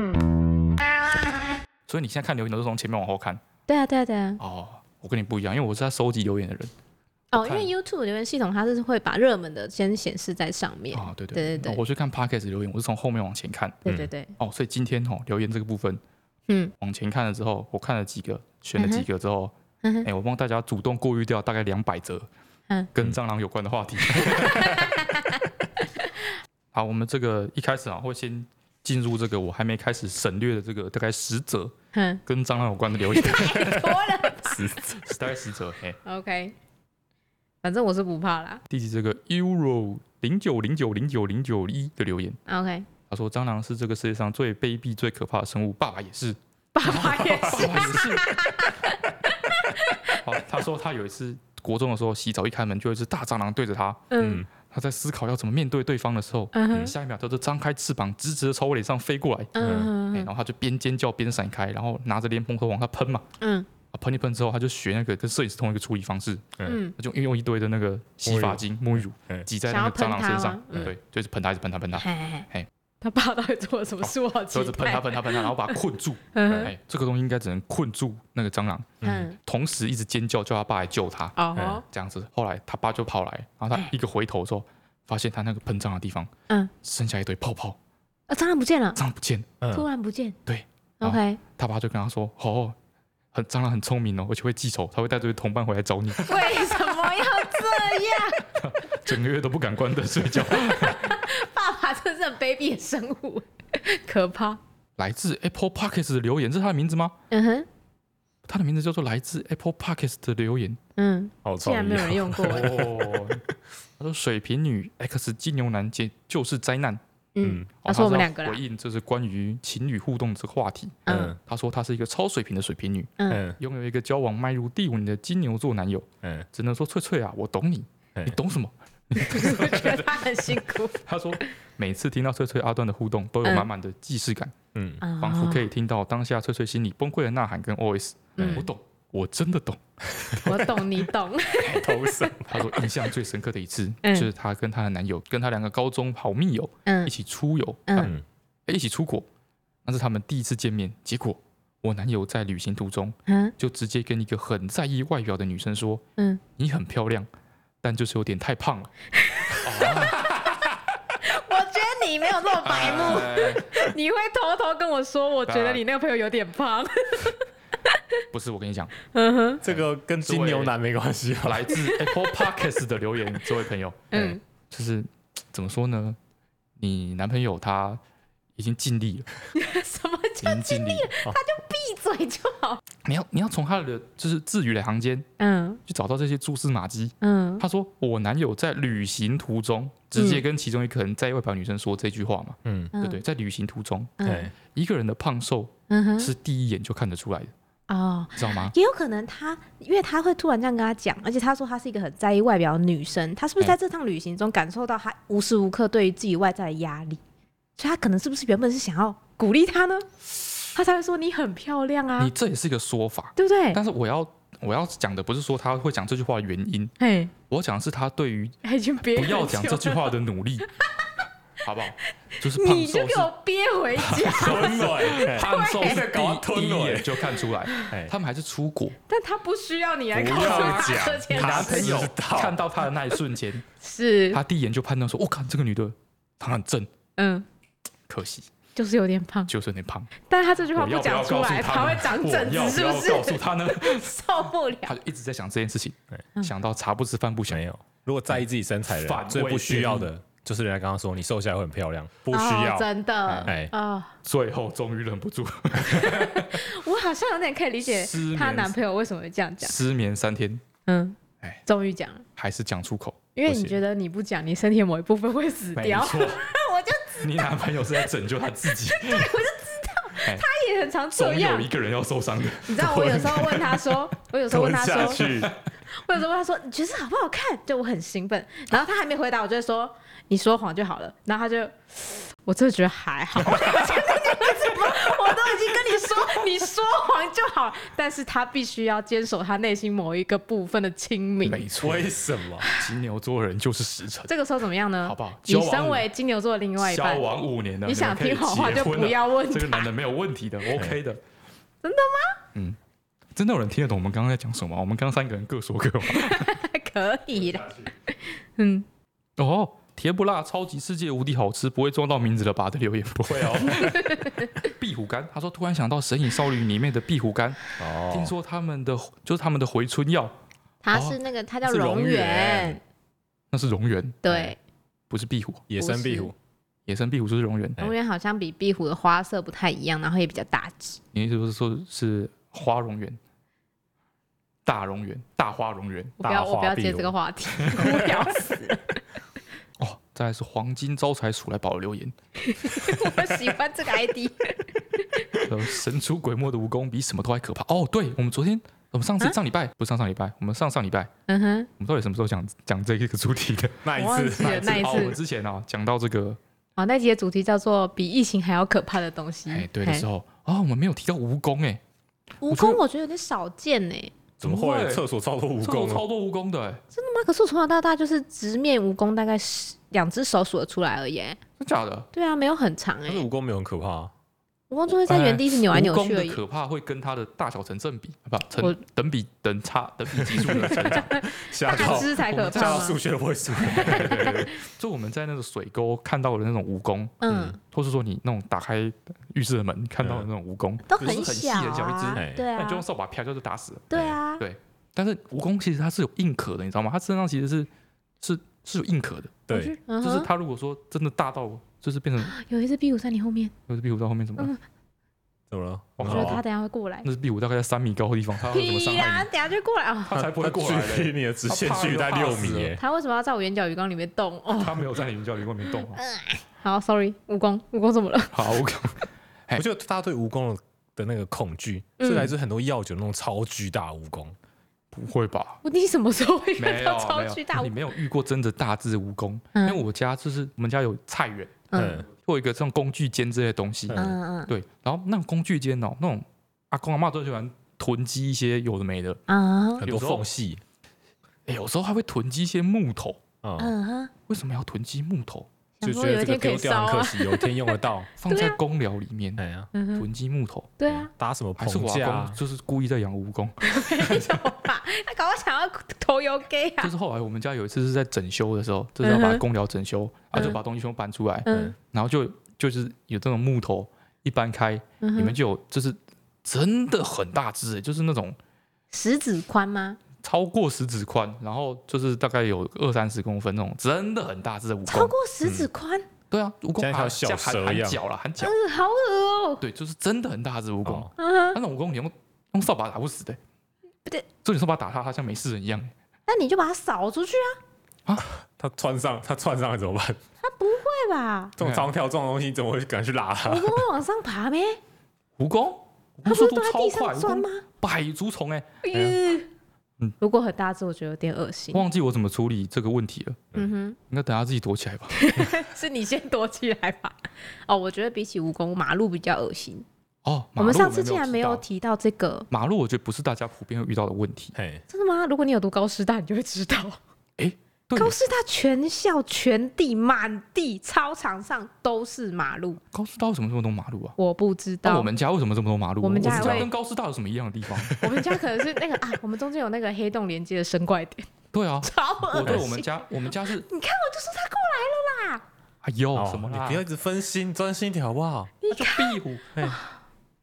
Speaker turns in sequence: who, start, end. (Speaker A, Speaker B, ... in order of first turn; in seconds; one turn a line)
Speaker A: 1.9-3.4
Speaker B: 3.7-4.4
Speaker A: 4.4-6.7
Speaker B: 7.3-11.8
Speaker A: 7.3-7.7
Speaker A: 10.9-13.8
Speaker B: 13.8-14.3
Speaker A: 14.4-16.0
Speaker A: 16.8-22.3
Speaker B: 18.8-19.1
Speaker B: 19.8-20.1
Speaker A: 22.9-24.9
Speaker B: 24.1-26.1
Speaker A: 26.7-31.7
Speaker B: 31.9-32.2
Speaker A: 32.2-36.0
Speaker B: 33.1-34.8
Speaker B: 36.0-36.5
Speaker B: 37.6-38.6
Speaker A: 38.7-42.4
Speaker B: 42.5-42.9
Speaker A: 43.1-48.4
Speaker B: 46.7-50.2
Speaker C: 46.9-48.1
Speaker A: 50.0-59.5
Speaker B: 54.1-54.5
Speaker C: 54.2-54.5
Speaker B: 56.5-56.9
Speaker B: 59.5-60.3
Speaker C: 59.6-59.9
Speaker A: 60.1-63.3
Speaker B: 63.4-63.7
Speaker A: 63.9-72.7
Speaker B: 66.6-66.9
Speaker C: 68.3-68.6
Speaker B: 69.7-70.9
Speaker B: 72.0-72.5
Speaker B: 73.0-75.8
Speaker A: 74.0-86.3
Speaker B: 76.3-76.7
Speaker C: 79.0-79.3
Speaker B: 79.0-79.4
Speaker B: 81.3-81.8
Speaker C: 81.5-81.8
Speaker A: 86.8-87.8
Speaker B: 88.3-89.0
Speaker A: 89.0-89.6
Speaker C: 89.6-89.8
Speaker B: 89.7-90.4
Speaker A: 90.5-92.8
Speaker B: 91.0-91.4
Speaker A: 93.3-96.6
Speaker B: 96.2-98.4
Speaker A: 98.5-101.3
Speaker B: 100.5-104.6
Speaker A: 105.0-107.2
Speaker B: 107.3-107.7
Speaker A: 108.5-110.8
Speaker B: 111.0-112.8
Speaker C: 111.4-113.4
Speaker A: 112.4-113.4
Speaker A: 114.0-117.0
Speaker B: 117.3-118.6
Speaker C: 117.4-117.7
Speaker A: 117.8-130.0
Speaker B: 121.0-121.3
Speaker C: 121.1-121.4
Speaker B: 123.2-123.4
Speaker C: 123.3-123.6
Speaker B: 129.2-131.0
Speaker A: 131.0-134.5
Speaker B: 133.4-133.7
Speaker C: 134.7-135.0
Speaker B: 135.0-135.7
Speaker A: 135.2-139.8
Speaker C: 138.4-138.7
Speaker C: 140.1-140.8
Speaker B: 140.4-142.3
Speaker C: 141.6-142.7
Speaker A: 142.5-148.1
Speaker B: 144.0-144.3
Speaker B: 146.8-147.1
Speaker B: 147.9-148.1
Speaker A: 148.7-149.3
Speaker A: 149.8-156.0
Speaker B: 153.2-153.5
Speaker A: 156.6-157.3
Speaker A: 157.8-158.9
Speaker B: 159.2-160.3
Speaker A: 159.6-160.6
Speaker B: 161.2-167.9
Speaker A: 162.6-163.8
Speaker A: 165.4-165.8
Speaker A: 168.3-168.9
Speaker B: 169.1-169.6
Speaker A: 169.6-170.8
Speaker C: 169.6-172.1
Speaker A: 171.4-174.1
Speaker B: 171.7-172.1
Speaker B: 174.1-174.4
Speaker C: 174.1-174.4
Speaker A: 174.7-176.2
Speaker A: 176.8-178.0
Speaker A: 178.6-179.3
Speaker B: 179.5-182.8
Speaker A: 180.4-181.1
Speaker A: 183.0-185.3
Speaker B: 185.4-185.8
Speaker A: 185.8-197.5
Speaker B: 187.2-187.6
Speaker B: 190.2-190.4
Speaker C: 192.6-192.9
Speaker B: 192.9-193.2
Speaker B: 194.2-194.5
Speaker C: 194.2-194.5
Speaker B: 195.9-196.3
Speaker B: 197.9-207.2
Speaker A: 198.3-198.7
Speaker B: 207.8-212.3
Speaker A: 212.2-216.9
Speaker B: 213.4-213.8
Speaker B: 217.0-217.3
Speaker A: 217.5-220.7
Speaker B: 218.6-220.2
Speaker B: 220.8-221.1
Speaker A: 221.6-223.3
Speaker B: 222.4-226.1
Speaker A: 223.9-228.9
Speaker C: 224.3-227.3
Speaker B: 227.7-227.9
Speaker C: 227.9-228.1
Speaker B: 229.1-232.1
Speaker C: 230.1-232.6
Speaker A: 230.3-233.7
Speaker B: 233.8-234.4
Speaker A: 234.3-236.9
Speaker B: 237.2-237.4
Speaker A: 238.1-238.5
Speaker B: 238.8-239.5
Speaker A: 239.5-240.1
Speaker B: 240.2-245.0
Speaker A: 240.7-244.2
Speaker A: 244.8-247.6
Speaker C: 247.5-253.7
Speaker A: 248.3-250.1
Speaker B: 252.3-254.1
Speaker A: 254.2-256.6
Speaker B: 255.8-259.8
Speaker A: 257.8-258.8
Speaker A: 259.6-260.6
Speaker B: 260.9-262.2
Speaker A: 262.4-263.8
Speaker B: 263.4-268.0
Speaker A: 265.7-266.5
Speaker A: 267.2-269.3
Speaker B: 268.7-271.7
Speaker A: 271.1-273.0
Speaker B: 272.6-275.3
Speaker C: 272.8-275.6
Speaker A: 275.2-275.5
Speaker B: 275.9-291.7
Speaker A: 291.4-292.1
Speaker C: 291.8-292.7
Speaker A: 292.7-294.3
Speaker B: 294.3-297.3
Speaker A: 295.0-296.0
Speaker A: 296.8-301.2
Speaker B: 297.8-299.9
Speaker B: 301.8-302.4
Speaker A: 303.4-306.6
Speaker B: 306.1-308.8
Speaker A: 309.4-320.4
Speaker B: 313.6-314.7
Speaker C: 317.8-318.3
Speaker B: 320.8-322.8
Speaker A: 320.9-321.2
Speaker C: 321.6-322.8
Speaker A: 323.5-324.2
Speaker B: 324.2-324.6
Speaker C: 324.3-324.5
Speaker A: 325.1-325.7
Speaker C: 325.7-326.3
Speaker B: 325.8-326.3
Speaker A: 326.9-327.8
Speaker B: 327.8-331.0
Speaker A: 331.1-333.2
Speaker A: 334.6-336.1
Speaker B: 336.2-339.0
Speaker C: 336.2-337.1
Speaker A: 339.8-343.2
Speaker B: 342.4-345.4
Speaker A: 345.4-351.1
Speaker B: 351.3-351.7
Speaker A: 351.8-353.9
Speaker C: 353.8-355.0
Speaker B: 353.9-355.2
Speaker A: 354.4-356.4
Speaker B: 356.8-360.1
Speaker A: 359.5-361.8
Speaker B: 362.4-364.1
Speaker A: 362.5-362.8
Speaker A: 364.4-365.0
Speaker C: 364.4-366.0
Speaker A: 365.6-366.8
Speaker B: 366.9-371.4
Speaker A: 371.6-372.1
Speaker B: 372.1-373.2
Speaker C: 373.1-374.1
Speaker B: 374.7-376.4
Speaker A: 375.0-382.9
Speaker C: 380.1-384.4
Speaker B: 380.6-383.0
Speaker B: 383.6-384.5
Speaker A: 383.6-397.7
Speaker B: 387.2-387.6
Speaker C: 387.3-387.5
Speaker B: 390.9-392.8
Speaker C: 392.1-392.4
Speaker B: 393.9-394.4
Speaker C: 393.9-394.2
Speaker A: 398.2-402.3
Speaker C: 399.5-399.8
Speaker B: 399.5-400.3
Speaker B: 402.2-403.5
Speaker A: 403.7-404.5
Speaker C: 405.5-406.4
Speaker A: 406.0-406.4
Speaker B: 406.0-407.1
Speaker A: 407.0-409.3
Speaker B: 408.5-410.1
Speaker A: 410.1-412.8
Speaker C: 410.1-412.8
Speaker B: 412.8-414.9
Speaker A: 414.5-416.0
Speaker B: 415.8-418.4
Speaker A: 418.3-419.6
Speaker C: 419.6-424.3
Speaker B: 422.0-422.3
Speaker A: 424.9-425.6
Speaker B: 425.6-427.7
Speaker A: 426.6-439.2
Speaker B: 429.5-429.8
Speaker B: 431.7-432.0
Speaker C: 431.7-432.1
Speaker C: 433.9-434.1
Speaker B: 433.9-434.5
Speaker B: 439.3-439.8
Speaker C: 439.8-440.6
Speaker A: 439.8-440.2
Speaker A: 441.5-443.2
Speaker C: 443.4-443.7
Speaker B: 443.6-444.1
Speaker A: 444.3-445.5
Speaker B: 445.8-448.6
Speaker C: 445.8-448.1
Speaker A: 448.2-449.4
Speaker C: 449.4-449.7
Speaker B: 449.7-450.1
Speaker A: 449.9-450.8
Speaker B: 450.8-451.1
Speaker C: 450.9-452.4
Speaker A: 451.6-454.3
Speaker B: 453.6-456.9
Speaker A: 456.8-468.4
Speaker B: 459.0-459.4
Speaker B: 461.4-461.7
Speaker B: 465.0-465.4
Speaker B: 468.9-470.0
Speaker A: 470.2-475.1
Speaker B: 474.9-476.1
Speaker C: 475.4-475.7
Speaker A: 476.3-478.6
Speaker C: 476.8-478.0
Speaker B: 478.4-479.6
Speaker A: 479.6-483.4
Speaker C: 480.9-481.1
Speaker B: 481.1-481.6
Speaker A: 484.4-485.9
Speaker B: 486.3-487.6
Speaker C: 488.2-490.2
Speaker B: 490.4-491.5
Speaker C: 491.6-493.8
Speaker A: 491.6-491.9
Speaker B: 493.4-494.8
Speaker A: 495.4-498.8
Speaker B: 496.2-497.6
Speaker B: 498.8-499.5
Speaker B: 500.2-501.8
Speaker A: 501.7-503.5
Speaker B: 503.5-504.0
Speaker A: 504.1-505.2
Speaker B: 505.1-509.8
Speaker A: 510.2-511.6
Speaker B: 510.6-512.5
Speaker A: 512.5-514.5
Speaker C: 514.5-514.8
Speaker B: 514.9-517.0
Speaker A: 517.4-518.2
Speaker B: 517.9-522.8
Speaker A: 522.9-524.1
Speaker B: 524.2-525.1
Speaker A: 524.8-528.0
Speaker B: 526.0-526.7
Speaker C: 526.2-526.7
Speaker C: 527.8-528.2
Speaker B: 528.0-531.3
Speaker A: 531.5-533.7
Speaker B: 531.8-535.4
Speaker A: 535.8-536.8
Speaker C: 536.1-538.5
Speaker B: 538.6-540.0
Speaker A: 538.7-539.5